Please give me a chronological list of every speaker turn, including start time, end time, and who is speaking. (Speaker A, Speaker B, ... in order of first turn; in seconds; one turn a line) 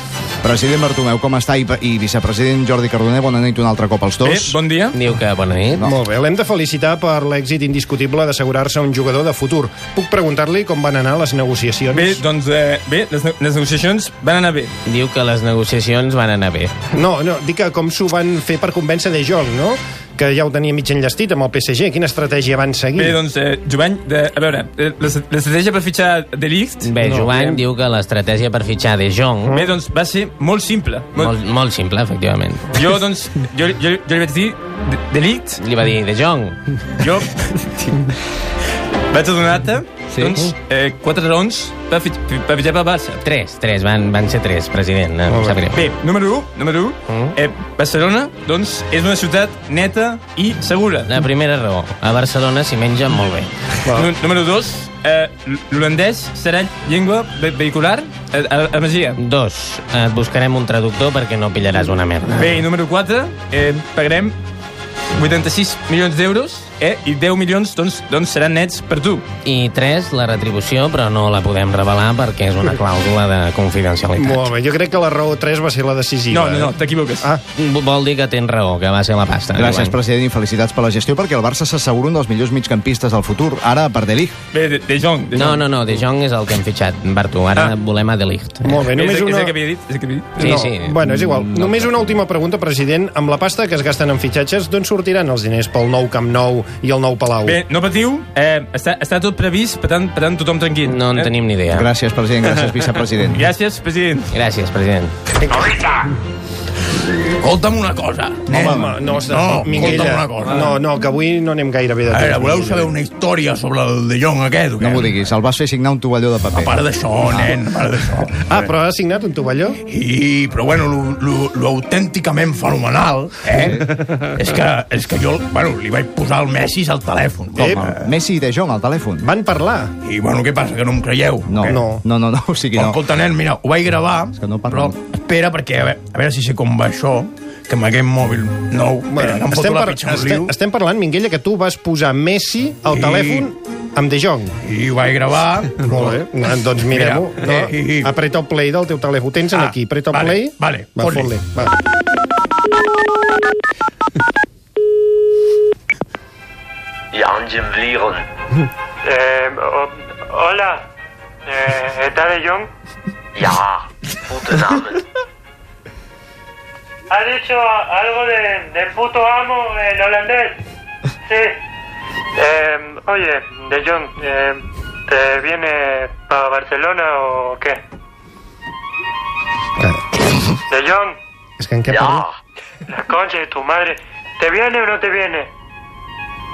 Speaker A: 0.4-4.6
Speaker B: 4.2-5.0
Speaker C: 4.9-5.8
Speaker D: 5.8-12.2
Speaker B: 11.9-14.7
Speaker C: 14.8-16.7
Speaker D: 16.9-23.2
Speaker B: 22.9-27.6
Speaker C: 26.8-29.6
Speaker B: 29.5-31.3
Speaker C: 31.1-32.7
Speaker B: 32.7-35.6
Speaker C: 35.6-36.6
Speaker B: 37.0-38.1
Speaker B: 39.1-43.2
Speaker C: 43.2-45.8
Speaker D: 45.3-45.6
Speaker B: 45.7-51.1
Speaker C: 51.1-53.5
Speaker B: 54.0-59.2
Speaker C: 59.2-62.4
Speaker B: 62.4-64.3
Speaker B: 65.2-69.2
Speaker C: 69.4-74.5
Speaker D: 74.2-77.4
Speaker B: 76.3-77.2
Speaker C: 77.6-80.0
Speaker A: 79.5-84.3
Speaker B: 84.5-85.7
Speaker C: 85.3-88.7
Speaker D: 88.6-89.5
Speaker B: 88.9-90.4
Speaker D: 90.4-97.6
Speaker C: 90.4-91.0
Speaker A: 91.0-92.1
Speaker B: 97.4-101.3
Speaker C: 100.8-101.9
Speaker A: 101.7-103.4
Speaker B: 103.3-104.3
Speaker C: 104.3-105.1
Speaker E: 107.4-110.8
Speaker D: 108.5-112.9
Speaker A: 108.5-109.0
Speaker E: 112.1-115.1
Speaker A: 114.8-117.5
Speaker E: 116.5-118.5
Speaker D: 118.5-119.8
Speaker E: 119.8-128.0
Speaker A: 123.6-123.8
Speaker D: 127.6-127.9
Speaker A: 127.6-129.3
Speaker D: 129.2-129.9
Speaker E: 130.0-131.8
Speaker A: 131.5-133.0
Speaker D: 131.7-132.0
Speaker E: 132.7-140.5
Speaker A: 134.3-134.9
Speaker D: 139.1-144.5
Speaker E: 142.9-143.5
Speaker E: 144.6-146.2
Speaker D: 145.8-151.7
Speaker E: 146.8-148.1
Speaker E: 149.5-151.4
Speaker F: 157.1-158.2
Speaker G: 159.1-160.7
Speaker G: 161.5-162.6
Speaker F: 163.4-164.9
Speaker G: 167.2-170.2
Speaker B: 167.3-170.5
Speaker G: 172.4-174.5
Speaker B: 172.4-174.5
Speaker G: 175.1-177.7
Speaker B: 175.2-177.2
Speaker B: 180.7-181.1
Speaker D: 181.6-182.3
Speaker G: 183.0-183.9
Speaker B: 183.0-183.9
Speaker G: 184.4-185.4